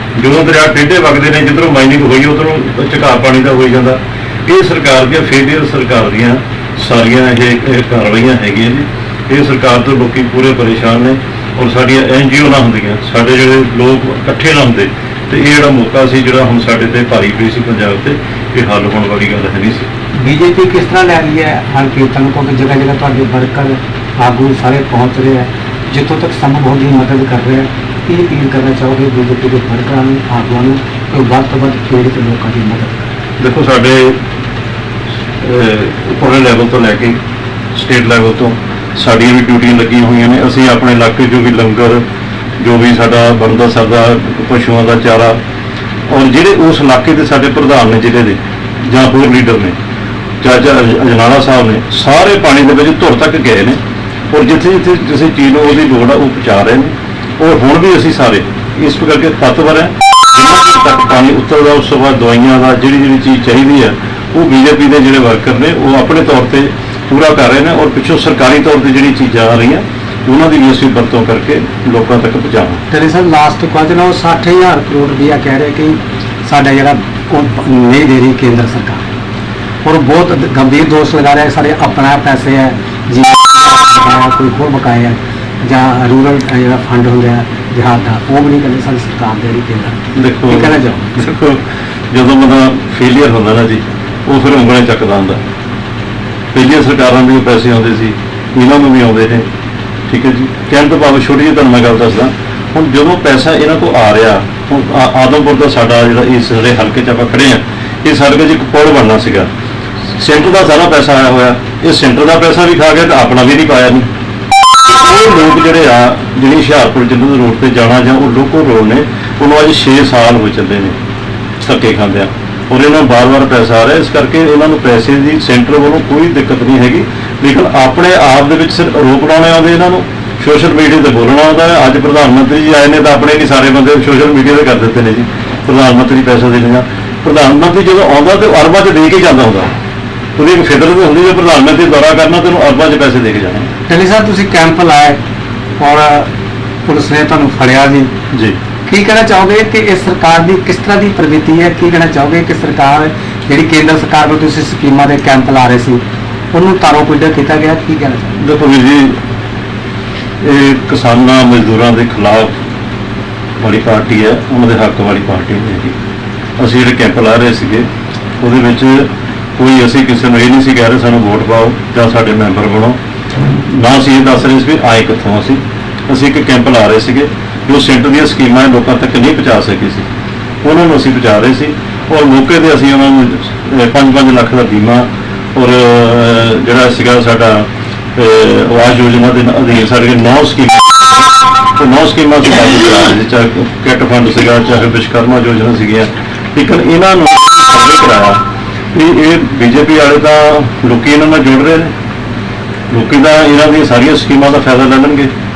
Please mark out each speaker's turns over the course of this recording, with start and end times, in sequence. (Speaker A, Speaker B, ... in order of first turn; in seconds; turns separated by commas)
Speaker A: 0.1-19.9, Speaker B: 20.2-33.1, Speaker A: 33.4-34.2, Speaker A: 35.4-37.2, Speaker A: 37.7-42.0, Speaker A: 42.6-45.4, Speaker A: 46.1-49.7, Speaker A: 50.4-53.8, Speaker A: 54.3-72.8, Speaker B: 72.9-79.0, Speaker B: 79.8-90.0, Speaker A: 90.1-95.4, Speaker B: 90.5-91.3, Speaker A: 96.5-99.4, Speaker A: 100.1-109.5, Speaker A: 110.2-114.0, Speaker A: 114.8-121.0, Speaker A: 121.6-139.7, Speaker A: 140.3-143.7, Speaker B: 143.9-145.2, Speaker B: 145.8-146.3, Speaker B: 146.8-148.1, Speaker A: 148.3-148.6, Speaker B: 148.8-158.4, Speaker A: 158.4-159.2, Speaker A: 160.4-162.5, Speaker A: 163.6-165.9, Speaker A: 166.6-167.8, Speaker A: 168.4-173.0, Speaker A: 173.6-180.1, Speaker A: 180.6-198.4, Speaker A: 198.9-201.9, Speaker A: 202.9-205.3